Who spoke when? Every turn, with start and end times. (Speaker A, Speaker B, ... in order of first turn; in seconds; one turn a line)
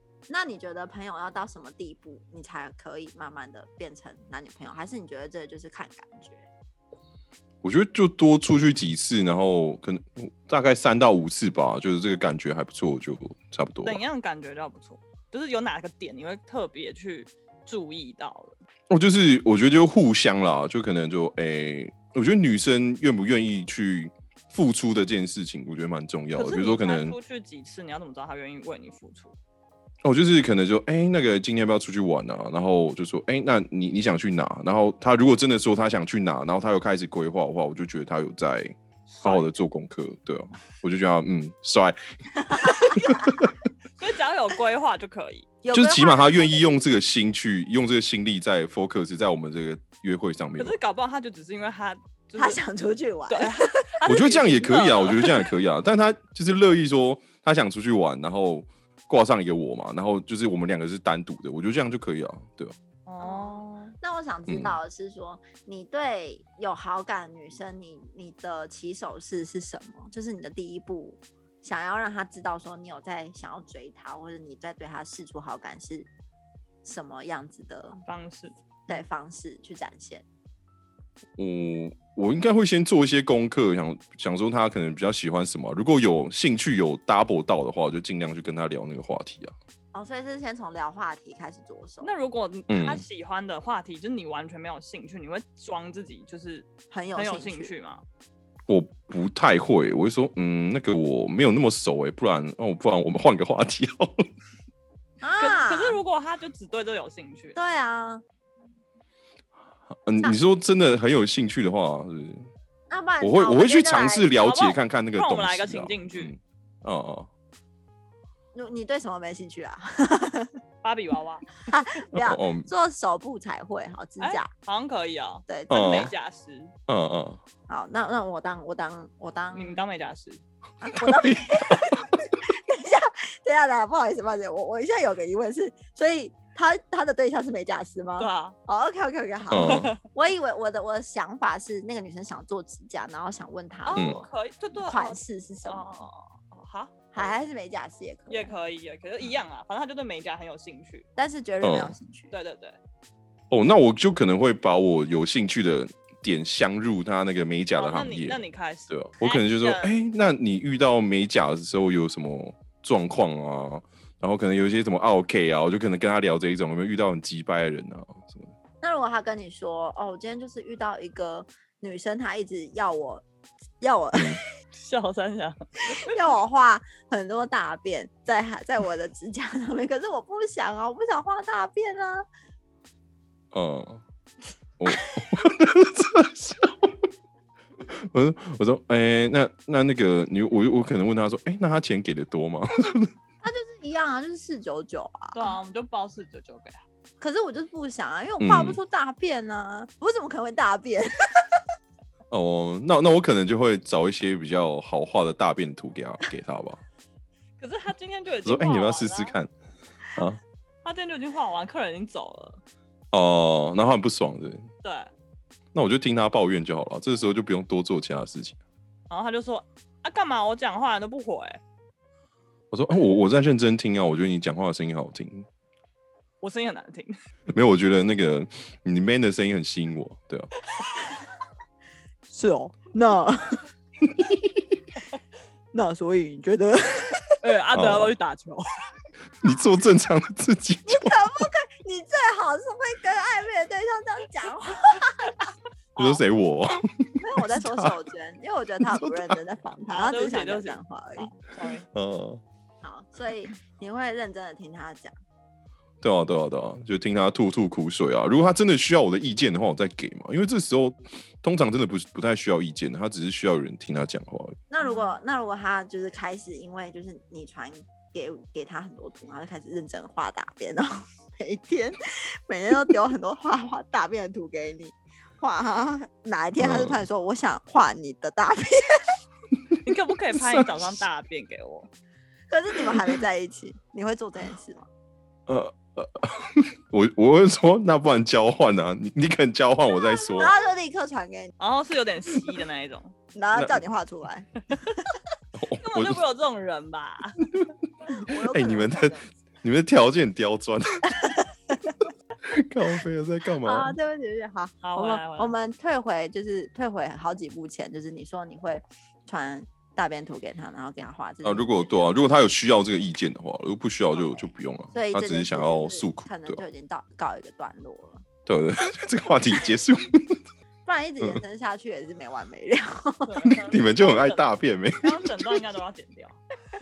Speaker A: 0.3-6.5
Speaker B: 7.6-14.0
Speaker C: 13.8-18.6
Speaker B: 18.9-27.2
Speaker C: 26.4-29.4
Speaker B: 30.1-43.5
Speaker C: 39.1-39.5
Speaker A: 42.6-43.4
Speaker C: 44.0-45.5
Speaker A: 45.6-46.6
Speaker B: 45.7-50.8
Speaker C: 50.6-52.6
Speaker A: 52.4-54.0
Speaker C: 53.3-55.5
Speaker B: 54.0-62.7
Speaker C: 63.1-64.0
Speaker A: 63.2-76.1
Speaker B: 64.5-64.8
Speaker A: 76.8-78.0
Speaker C: 78.1-78.5
Speaker A: 78.9-80.2
Speaker B: 81.4-89.5
Speaker A: 89.9-92.1
Speaker C: 92.0-98.0
Speaker B: 92.7-93.0
Speaker A: 96.9-97.7
Speaker B: 98.7-104.3
Speaker A: 105.2-106.0
Speaker C: 105.4-107.6
Speaker A: 107.5-108.2
Speaker B: 110.0-112.5
Speaker A: 112.9-114.3
Speaker B: 113.2-117.3
Speaker C: 114.4-116.3
Speaker A: 118.5-120.5
Speaker C: 120.8-121.5
Speaker A: 121.7-124.5
Speaker B: 122.1-122.7
Speaker C: 124.2-126.7
Speaker A: 125.5-126.1
Speaker B: 125.7-126.1
Speaker B: 126.9-127.4
Speaker A: 127.7-129.8
Speaker C: 129.5-130.4
Speaker A: 130.8-144.2
Speaker B: 131.0-131.8
Speaker C: 138.2-138.6
Speaker B: 139.5-139.9
Speaker C: 139.5-140.0
Speaker C: 143.8-147.3
Speaker B: 143.9-144.2
Speaker A: 144.8-145.9
Speaker A: 147.1-148.5
Speaker C: 148.3-151.1
Speaker A: 151.2-152.3
Speaker B: 151.6-151.9
Speaker C: 152.3-152.8
Speaker B: 153.5-168.5
Speaker C: 157.8-159.9
Speaker A: 168.8-173.2
Speaker A: 173.8-174.4
Speaker B: 174.1-174.4
Speaker C: 174.7-176.2
Speaker A: 175.9-182.2
Speaker B: 183.5-184.0
Speaker B: 184.8-187.0
Speaker B: 187.8-193.1
Speaker A: 193.4-195.6
Speaker C: 195.3-196.8
Speaker A: 197.2-201.1
Speaker B: 198.4-198.8
Speaker B: 202.3-206.8
Speaker C: 207.6-209.4
Speaker B: 208.4-209.5
Speaker B: 210.2-210.4
Speaker C: 210.8-212.6
Speaker B: 213.1-214.7
Speaker C: 214.8-215.1
Speaker B: 215.7-218.6
Speaker C: 219.1-221.6
Speaker B: 222.7-225.5
Speaker C: 226.4-227.1
Speaker B: 227.5-230.5
Speaker A: 232.3-233.6
Speaker A: 235.7-237.3
Speaker C: 237.4-238.7
Speaker B: 237.7-238.1
Speaker B: 239.4-241.1
Speaker A: 240.9-245.4
Speaker C: 246.0-246.2
Speaker B: 246.0-247.9
Speaker A: 247.2-251.3
Speaker B: 248.8-249.4
Speaker C: 249.9-251.9
Speaker B: 251.9-252.4
Speaker A: 252.8-255.1
Speaker B: 256.0-264.6
Speaker A: 264.7-279.0
Speaker C: 264.8-265.1
Speaker B: 276.6-277.0
Speaker C: 279.9-281.9
Speaker B: 280.3-280.9
Speaker A: 282.5-284.9
Speaker B: 285.5-290.5
Speaker A: 290.3-291.5
Speaker C: 291.6-293.1
Speaker A: 293.4-295.0
Speaker B: 295.5-296.2
Speaker C: 295.8-297.4
Speaker A: 298.1-299.3
Speaker B: 298.3-301.3
Speaker A: 301.2-301.9
Speaker B: 302.5-303.9
Speaker A: 303.6-311.8
Speaker C: 304.8-305.5
Speaker B: 311.4-316.6
Speaker A: 314.9-318.2
Speaker B: 318.5-320.4
Speaker A: 320.9-323.5
Speaker C: 323.3-326.4
Speaker B: 323.5-325.4